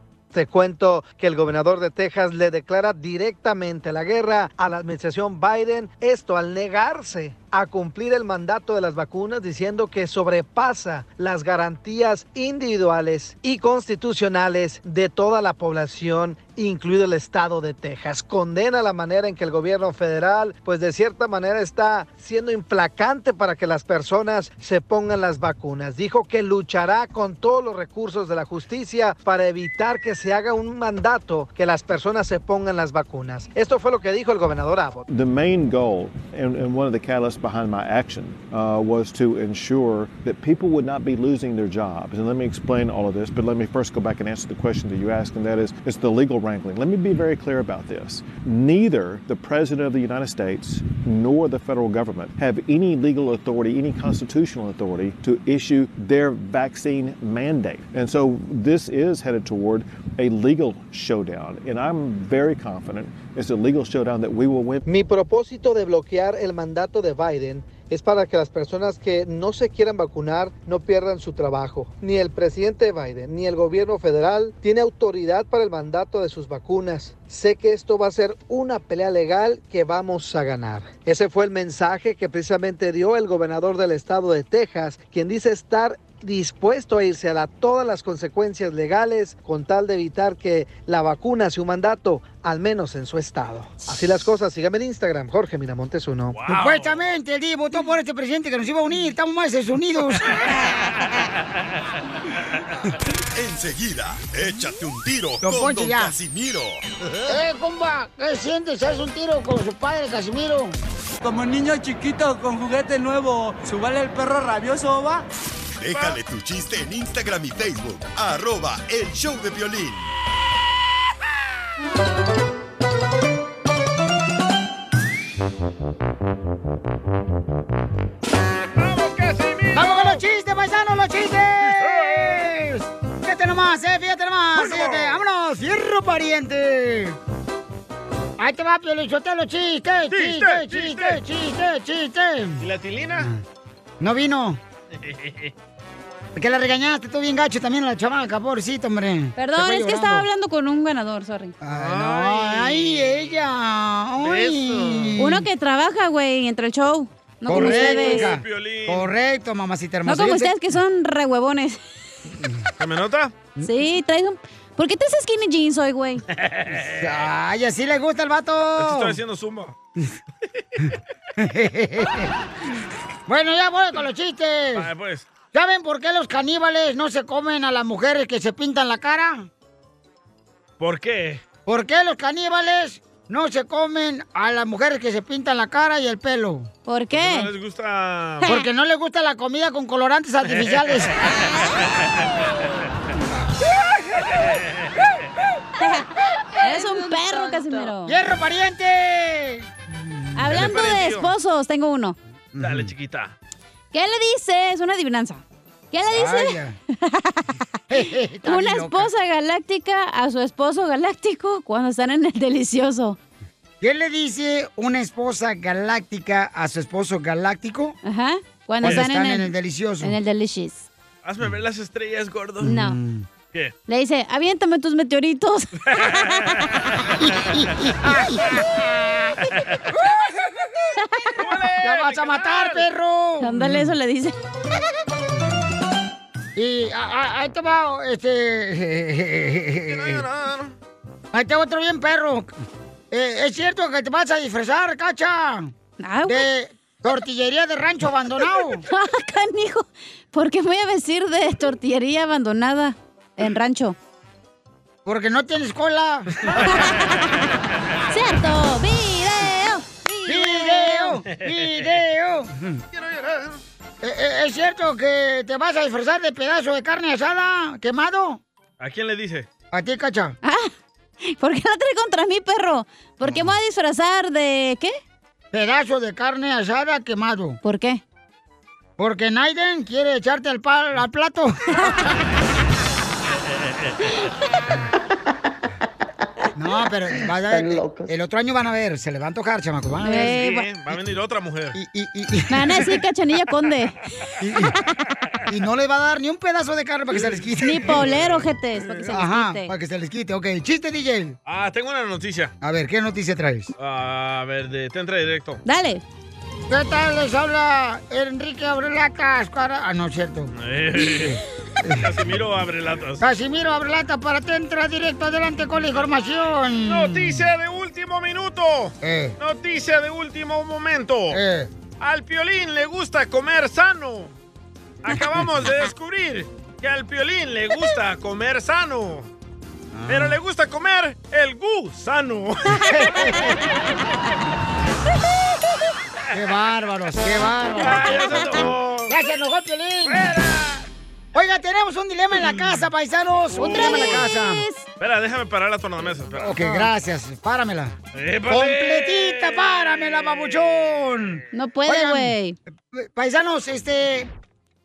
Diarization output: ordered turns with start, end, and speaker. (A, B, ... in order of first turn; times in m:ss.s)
0:00.3-0:35.1 A
0:35.1-1:04.8 B
1:04.9-1:36.4 A
1:36.3-1:37.0 C
1:36.5-1:40.4 D
1:43.3-1:46.8 E
1:45.4-1:46.1 D
1:47.3-1:50.8 D
1:51.2-1:55.3 F
1:55.8-2:00.1 E
1:55.9-1:56.2 C
2:08.8-2:10.2 C
2:09.7-2:17.2 D
2:11.8-2:12.2 C
2:14.6-2:15.2 C
2:18.4-2:22.6 D
2:20.1-2:21.2 C
2:22.6-2:23.3 C
2:24.0-2:24.6 D
2:25.0-2:25.5 C
2:26.4-2:30.3 D
2:29.4-2:31.6 G
2:31.6-2:35.5 D
2:31.7-2:33.3 C
2:34.2-2:35.2 C
2:35.2-2:38.3 G
2:37.5-2:40.5 D
2:37.5-2:39.1 C
2:40.1-2:41.8 G
2:42.8-2:43.3 C
2:43.6-2:46.2 G
2:46.4-2:47.0 C
2:46.9-2:49.2 D
2:48.8-2:49.8 C
2:51.4-2:52.3 D
2:53.3-2:54.9 D
2:54.8-2:55.3 C
2:55.5-2:59.5 D
3:00.8-3:01.4 C
3:01.7-3:06.7 D
3:06.9-3:07.5 G
3:07.1-3:08.5 C
3:08.4-3:11.2 D
3:15.8-3:18.1 G
3:18.1-3:20.7 D
3:20.4-3:22.2 G
3:20.5-3:21.3 C
3:22.6-3:22.9 D
3:22.6-3:23.3 C
3:23.9-3:27.4 G
3:26.1-3:26.8 D
3:27.9-3:29.1 D
3:28.4-3:33.2 G
3:33.8-3:38.0 D
3:38.0-3:40.9 G
3:38.8-3:39.1 C
3:38.8-3:40.2 D
3:41.2-3:42.7 C
3:42.6-3:43.3 D
3:42.6-3:43.0 G
3:43.9-3:46.6 G
3:45.9-3:46.6 C
3:48.0-3:48.4 D
3:51.0-3:51.4 G
3:51.4-3:52.9 C
3:51.8-3:53.9 D
3:53.4-3:54.4 G
3:56.6-4:00.2 D
3:59.9-4:00.8 C
4:01.3-4:02.5 D
4:03.1-4:05.7 D
4:06.0-4:06.5 G
4:06.3-4:08.8 D
4:08.9-4:14.0 G
4:15.0-4:16.4 D
4:16.6-4:17.2 G
4:18.1-4:21.2 G
4:20.3-4:22.8 D
4:23.0-4:23.6 C
4:24.0-4:28.4 D
4:28.8-4:29.5 C
4:29.7-4:30.4 D
4:30.4-4:30.7 G
4:31.3-4:35.0 G
4:33.2-4:33.5 D
4:35.5-4:37.6 D
4:37.6-4:38.0 G
4:39.0-4:41.6 D
4:46.6-4:50.4 D
4:50.0-4:50.7 G
4:50.1-4:51.8 C
4:51.7-4:52.9 D
4:52.5-4:54.0 G
4:54.4-4:54.7 D
4:55.5-4:58.0 D
4:57.5-4:59.7 G
4:57.9-4:58.3 C
4:59.1-5:01.4 D
5:01.5-5:02.5 C
5:02.6-5:03.7 D
5:03.8-5:05.6 C
5:05.6-5:06.0 G
5:06.7-5:12.1 D
5:10.6-5:11.4 C
5:12.0-5:13.2 C
5:13.2-5:17.4 D
5:16.9-5:21.4 C
5:19.0-5:19.4 D
5:21.3-5:21.7 D
5:22.0-5:24.3 C
5:25.0-5:29.3 C
5:30.0-5:30.4 D
5:30.1-5:33.0 C
5:32.9-5:33.6 D
5:36.3-5:38.1 D
5:37.8-5:39.2 C
5:39.1-5:40.3 D
5:40.1-5:40.8 C
5:41.4-5:44.6 D
5:43.5-5:44.3 C
5:43.6-5:44.9 G
5:45.0-5:46.9 C
5:46.4-5:48.0 D
5:48.1-5:51.2 C
5:48.5-5:52.4 D
5:51.5-5:52.6 G
5:52.9-5:54.3 D